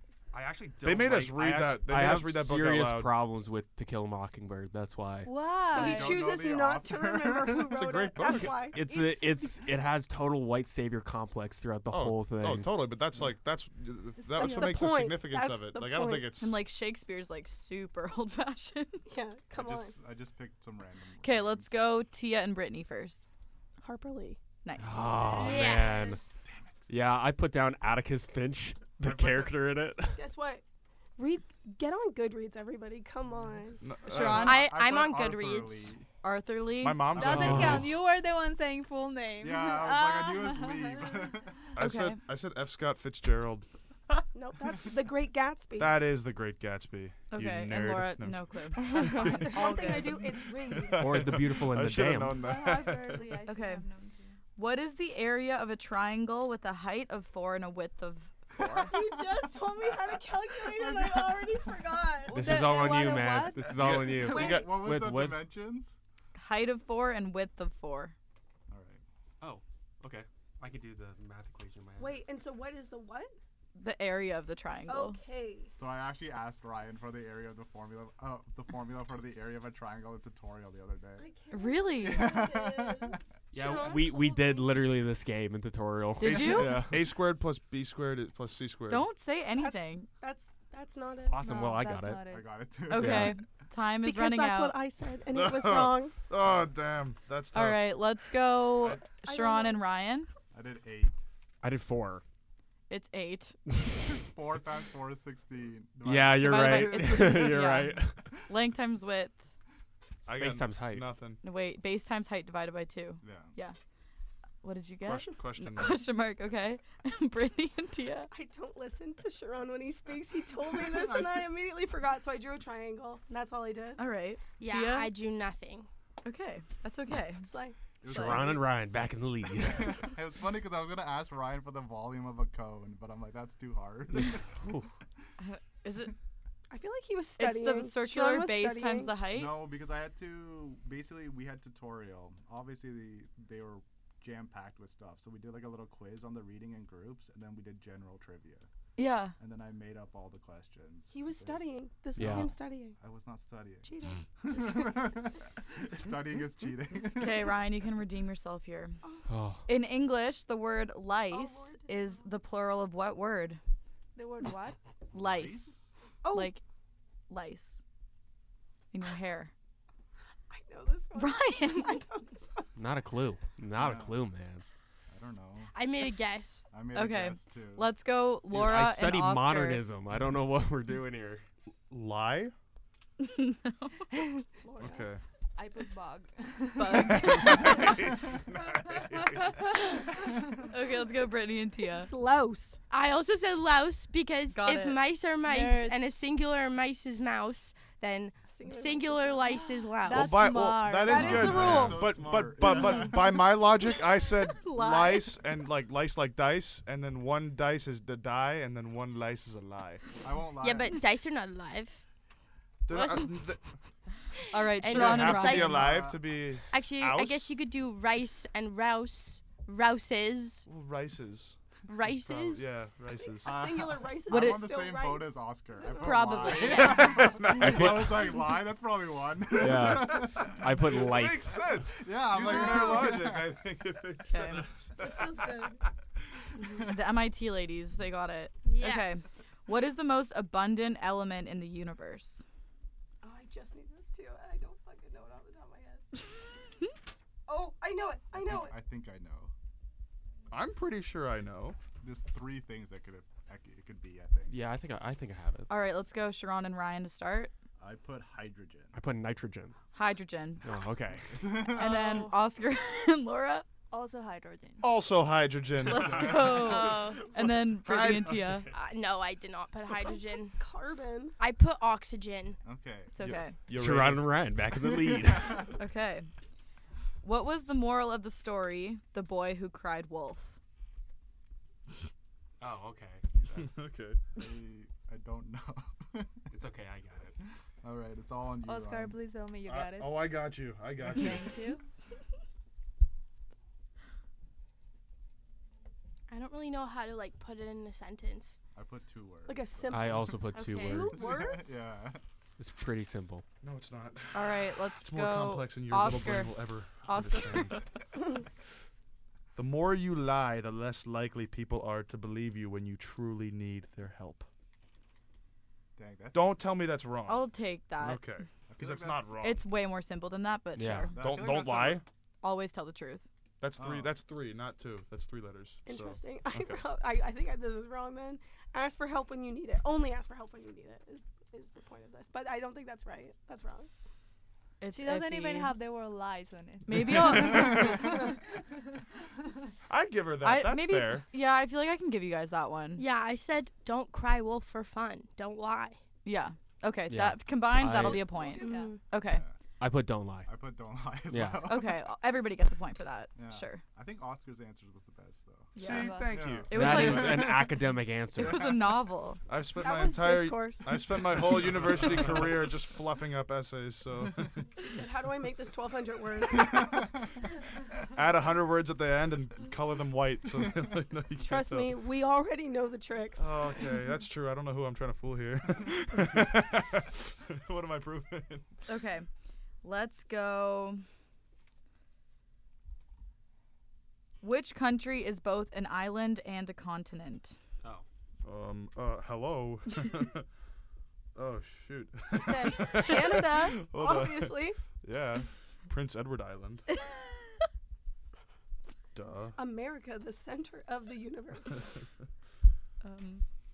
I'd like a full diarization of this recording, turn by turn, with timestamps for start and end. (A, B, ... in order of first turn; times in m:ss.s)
0:00.3-0:05.3 A
0:00.8-0:03.1 B
0:05.2-0:06.2 C
0:05.7-0:07.8 D
0:05.7-0:08.8 E
0:07.7-0:08.7 B
0:08.3-0:12.7 A
0:08.9-0:09.4 C
0:11.9-0:16.6 B
0:14.3-0:16.4 E
0:16.4-0:19.0 F
0:19.1-0:19.9 E
0:19.5-0:21.8 D
0:21.2-0:23.2 F
0:23.8-0:24.4 E
0:24.6-0:25.2 F
0:24.8-0:26.2 A
0:25.2-0:25.8 C
0:25.3-0:25.8 D
0:25.4-0:26.2 G
0:26.3-0:26.9 D
0:26.9-0:30.2 A
0:29.0-0:29.6 D
0:30.1-0:30.6 E
0:31.2-0:33.8 E
0:33.8-0:34.7 B
0:34.0-0:36.1 D
0:34.1-0:34.6 F
0:34.2-0:35.9 G
0:36.2-0:37.2 F
0:36.8-0:37.8 B
0:37.2-0:41.1 C
0:37.2-0:37.9 A
0:37.4-0:37.6 D
0:39.4-0:41.6 D
0:41.8-0:43.6 B
0:41.8-0:42.2 F
0:44.3-0:46.0 E
0:45.8-0:48.4 B
0:47.3-0:50.2 F
0:48.8-0:51.2 E
0:50.7-0:53.3 B
0:51.0-0:52.4 A
0:52.4-0:54.4 C
0:53.5-0:53.8 F
0:54.6-0:58.9 F
0:58.8-1:02.5 E
0:58.9-0:59.2 D
0:59.9-1:01.7 D
1:02.3-1:03.8 C
1:02.3-1:05.5 A
1:03.8-1:06.0 D
1:03.8-1:04.6 B
1:04.2-1:04.7 E
1:06.4-1:08.1 F
1:08.7-1:09.0 D
1:09.4-1:12.2 A
1:12.0-1:13.3 E
1:13.8-1:15.2 F
1:14.9-1:15.7 E
1:15.7-1:21.3 D
1:21.2-1:24.8 E
1:21.5-1:22.4 F
1:22.0-1:23.2 D
1:23.5-1:27.0 A
1:26.2-1:26.8 F
1:26.3-1:29.1 B
1:26.3-1:26.7 D
1:28.9-1:30.1 F
1:29.5-1:31.4 E
1:31.3-1:32.2 A
1:31.4-1:32.5 C
1:32.2-1:33.4 D
1:32.9-1:34.8 F
1:33.0-1:33.3 A
1:34.0-1:36.1 E
1:35.3-1:37.9 B
1:37.5-1:40.3 F
1:39.2-1:39.8 E
1:40.5-1:41.2 D
1:41.6-1:42.2 A
1:42.9-1:43.6 F
1:44.0-1:47.5 D
1:46.0-1:48.2 A
1:46.4-1:49.4 F
1:50.2-1:51.4 B
1:50.4-1:51.0 A
1:51.4-1:53.8 F
1:53.2-1:53.5 D
1:54.6-1:58.3 F
1:55.0-1:56.0 B
1:58.3-2:04.0 E
2:00.9-2:01.2 D
2:04.0-2:05.1 F
2:04.6-2:05.9 G
2:06.2-2:07.5 F
2:07.4-2:07.8 E
2:08.0-2:08.7 D
2:08.0-2:10.1 A
2:08.0-2:08.4 F
2:09.6-2:14.4 D
2:14.2-2:14.9 A
2:15.4-2:16.1 F
2:16.7-2:19.1 E
2:17.4-2:19.6 F
2:19.3-2:28.7 D
2:29.0-2:29.3 F
2:29.4-2:37.6 D
2:31.1-2:33.0 E
2:32.2-2:32.5 A
2:33.8-2:35.1 E
2:37.1-2:39.0 F
2:39.3-2:39.6 A
2:39.7-2:43.6 F
2:41.3-2:42.2 E
2:44.2-2:44.8 C
2:45.1-2:45.7 F
2:45.1-2:45.9 D
2:46.2-2:46.5 E
2:46.3-2:46.6 F
2:47.3-2:47.8 F
2:48.9-2:49.5 F
2:50.5-2:52.7 E
2:51.2-2:52.0 F
2:52.8-2:54.6 A
2:53.7-2:54.2 D
2:55.1-2:55.7 D
2:55.7-2:56.7 G
2:56.7-2:57.9 D
2:56.9-2:59.8 F
2:58.5-3:01.4 A
3:01.9-3:02.5 B
3:03.2-3:04.0 F
3:04.6-3:05.1 E
3:04.8-3:05.2 B
3:05.6-3:08.0 C
3:06.7-3:07.9 F
3:07.0-3:09.7 B
3:10.6-3:12.1 F
3:11.9-3:12.8 E
3:12.9-3:20.4 G
3:14.5-3:15.0 F
3:15.4-3:16.0 C
3:18.4-3:19.7 E
3:20.0-3:21.7 C
3:20.1-3:30.1 B
3:21.0-3:22.1 E
3:21.1-3:23.4 D
3:23.8-3:25.4 E
3:30.2-3:31.0 D
3:30.6-3:32.0 G
3:32.8-3:33.7 B
3:32.9-3:33.2 G
3:34.5-3:35.8 F
3:34.7-3:36.0 G
3:34.8-3:37.5 B
3:35.4-3:36.2 D
3:36.7-3:40.7 G
3:40.7-3:43.7 B
3:41.8-3:42.7 G
3:43.2-3:47.0 E
3:43.4-3:50.7 D
3:44.3-3:44.7 F
3:46.0-3:47.6 G
3:46.7-3:48.0 B
3:47.5-3:48.3 A
3:49.5-3:51.6 A
3:50.0-3:55.7 B
3:52.0-3:53.6 D
3:54.3-3:54.6 F
3:55.0-3:55.8 E
3:56.8-4:02.4 F
3:58.6-3:59.3 G
4:03.2-4:06.0 E
4:07.5-4:08.7 E
4:08.3-4:09.5 D
4:10.5-4:11.8 B
4:12.0-4:14.6 D
4:14.5-4:15.7 A
4:15.7-4:17.5 F
4:17.8-4:18.9 D
4:18.9-4:19.8 A
4:19.9-4:20.7 F
4:20.6-4:21.3 A
4:21.3-4:21.9 D
4:21.7-4:23.6 F
4:21.7-4:22.4 G
4:23.9-4:24.9 C
4:24.8-4:26.8 B
4:25.9-4:28.7 F
4:26.6-4:27.3 G
4:27.7-4:28.4 B
4:28.7-4:30.6 G
4:30.1-4:31.4 E
4:31.4-4:32.6 G
4:32.6-4:33.1 D
4:33.1-4:33.5 F
4:33.2-4:34.4 B
4:33.7-4:35.6 A
4:35.8-4:36.3 F
4:37.2-4:40.6 F
4:42.6-4:43.6 A
4:43.5-4:44.2 B
4:44.4-4:46.3 D
4:46.5-4:47.3 A
4:47.8-4:49.1 D
4:48.7-4:50.3 C
4:49.6-4:51.5 B
4:51.1-4:51.8 C
4:56.3-4:58.6 G
4:58.7-5:00.5 D
4:59.5-5:01.8 E
4:59.9-5:01.2 A
5:00.5-5:01.1 G
5:01.1-5:02.2 D
5:02.6-5:03.4 A
5:03.6-5:07.8 B
5:04.3-5:07.8 F
5:09.6-5:14.4 B
5:16.0-5:16.7 D
5:16.3-5:19.6 B
5:17.3-5:18.2 F
5:18.7-5:19.4 D
5:19.4-5:21.1 F
5:20.8-5:21.2 A
5:21.1-5:22.0 D
5:21.2-5:22.0 B
5:22.4-5:23.2 F
5:23.6-5:26.8 B
5:23.8-5:24.1 D
5:25.8-5:33.9 E
5:34.8-5:35.7 F
5:34.9-5:38.2 C
5:36.8-5:38.0 F
5:37.0-5:38.1 B
5:39.9-5:41.2 B
5:40.4-5:43.0 F
5:43.0-5:46.0 G
5:46.2-5:49.4 F
5:47.1-5:48.3 A
5:48.3-5:48.9 E
5:48.6-5:48.9 C
5:48.6-5:49.0 G
5:49.3-5:49.5 D
5:49.8-5:50.5 A
5:50.4-5:52.0 D
5:51.3-5:51.7 A
5:51.6-5:53.8 F
5:53.4-5:55.7 D
5:55.7-5:57.5 B
5:55.8-5:57.7 F
5:55.9-5:56.3 C
5:56.3-5:57.4 D
5:56.7-5:58.8 A
5:58.4-5:59.4 F
5:59.5-6:04.6 B
5:59.8-6:01.1 E
6:01.7-6:02.2 D
6:04.8-6:07.1 E
6:08.1-6:12.0 B
6:11.4-6:13.6 E
6:13.4-6:18.7 B
6:18.9-6:19.3 F
6:19.8-6:21.0 F
6:24.4-6:27.6 F
6:28.4-6:30.4 B
6:31.3-6:36.9 B
6:32.3-6:34.8 E
6:39.1-6:39.6 B
6:39.6-6:41.9 E
6:43.0-6:43.4 F